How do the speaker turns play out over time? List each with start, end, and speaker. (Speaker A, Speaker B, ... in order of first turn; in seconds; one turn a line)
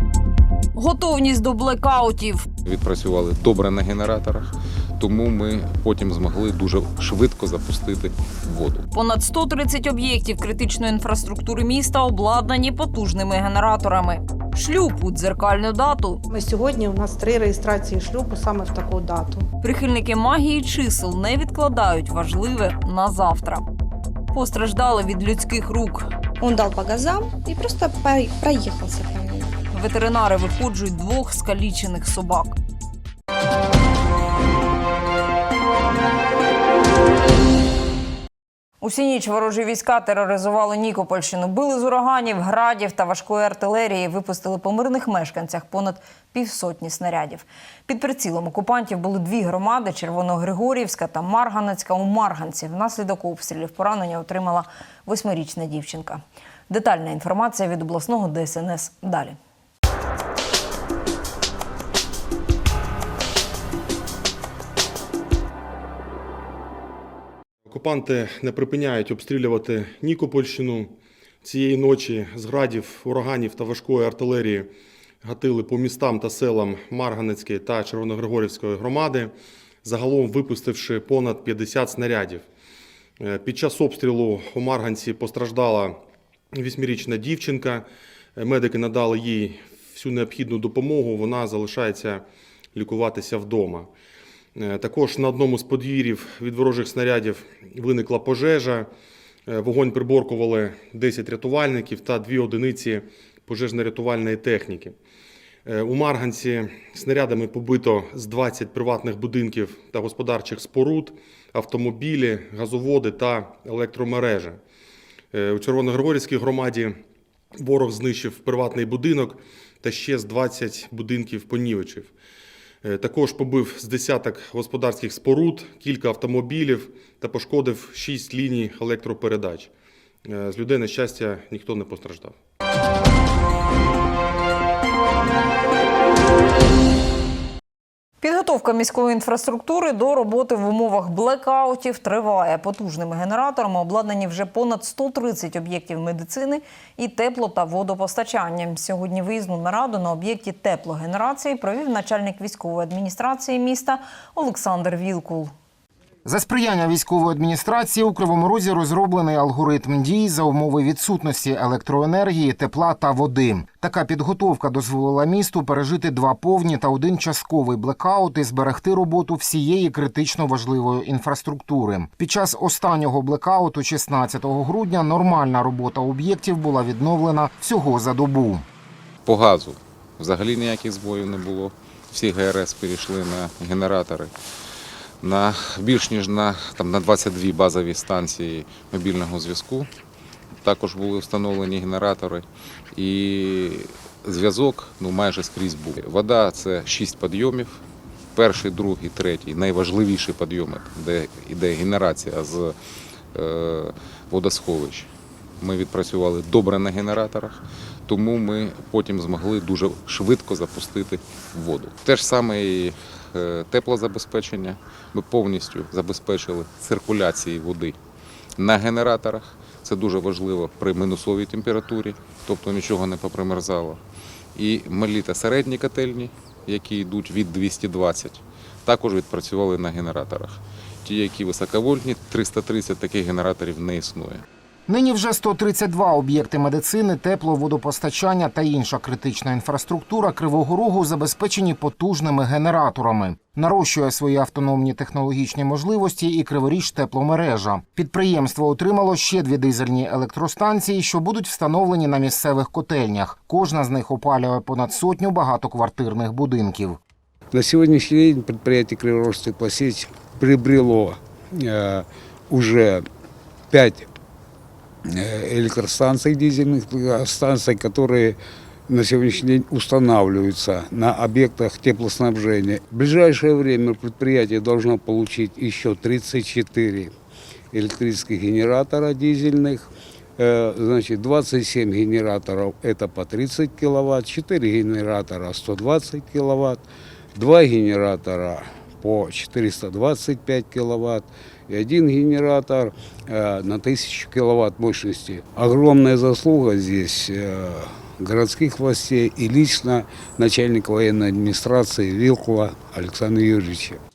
Speaker A: 0.8-2.5
Speaker B: 2.6-8.8
Speaker A: 8.9-16.2
Speaker C: 16.3-19.4
Speaker A: 19.6-23.6
Speaker A: 24.3-26.1
Speaker D: 26.4-29.5
Speaker A: 29.7-32.5
Speaker A: 38.8-59.4
Speaker E: 67.7-74.7
Speaker E: 75.2-79.3
Speaker E: 79.8-82.4
Speaker E: 83.2-86.0
Speaker E: 86.5-93.9
Speaker E: 94.5-98.9
Speaker E: 99.5-105.0
Speaker E: 105.6-114.6
Speaker E: 115.3-117.0
Speaker E: 117.5-122.1
Speaker E: 122.8-129.7
Speaker E: 130.2-132.3
Speaker A: 138.2-155.5
Speaker F: 156.2-178.6
Speaker B: 179.2-184.3
Speaker B: 185.2-189.9
Speaker B: 190.6-197.8
Speaker B: 198.3-202.7
Speaker B: 203.3-205.1
Speaker B: 205.6-217.9
Speaker B: 218.6-224.0
Speaker B: 224.6-234.4
Speaker F: 234.9-257.0
Speaker G: 257.5-263.0
Speaker G: 263.7-264.1
Speaker G: 265.1-268.4
Speaker G: 268.9-277.1
Speaker G: 277.7-286.8
Speaker G: 287.3-304.0